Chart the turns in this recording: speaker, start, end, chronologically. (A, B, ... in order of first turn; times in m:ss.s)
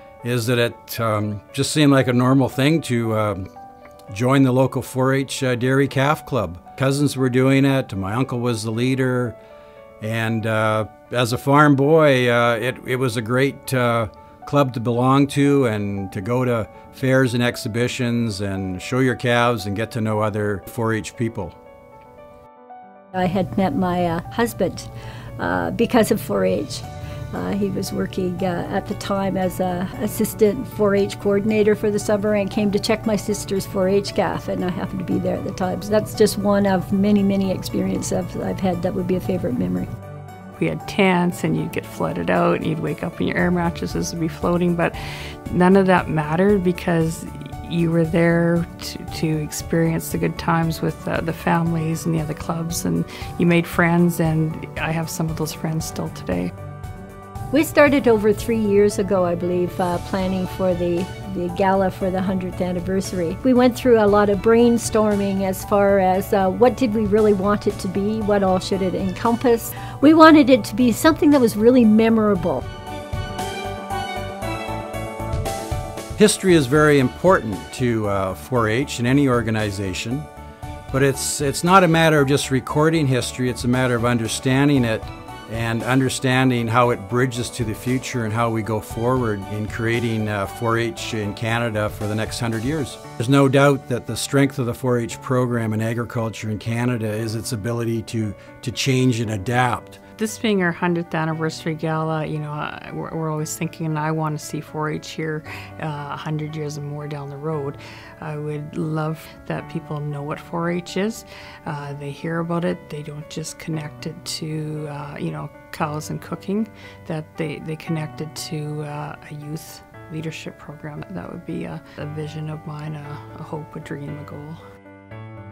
0:00.2-0:03.5 A
0:04.1-0:09.4 A
0:10.0-0:21.5 A
0:23.1-0:39.9 B
0:40.6-0:44.9 C
0:45.5-0:56.5 C
0:57.5-1:12.6 B
1:16.2-1:20.3 A
1:20.9-1:40.0 A
1:40.2-2:04.6 C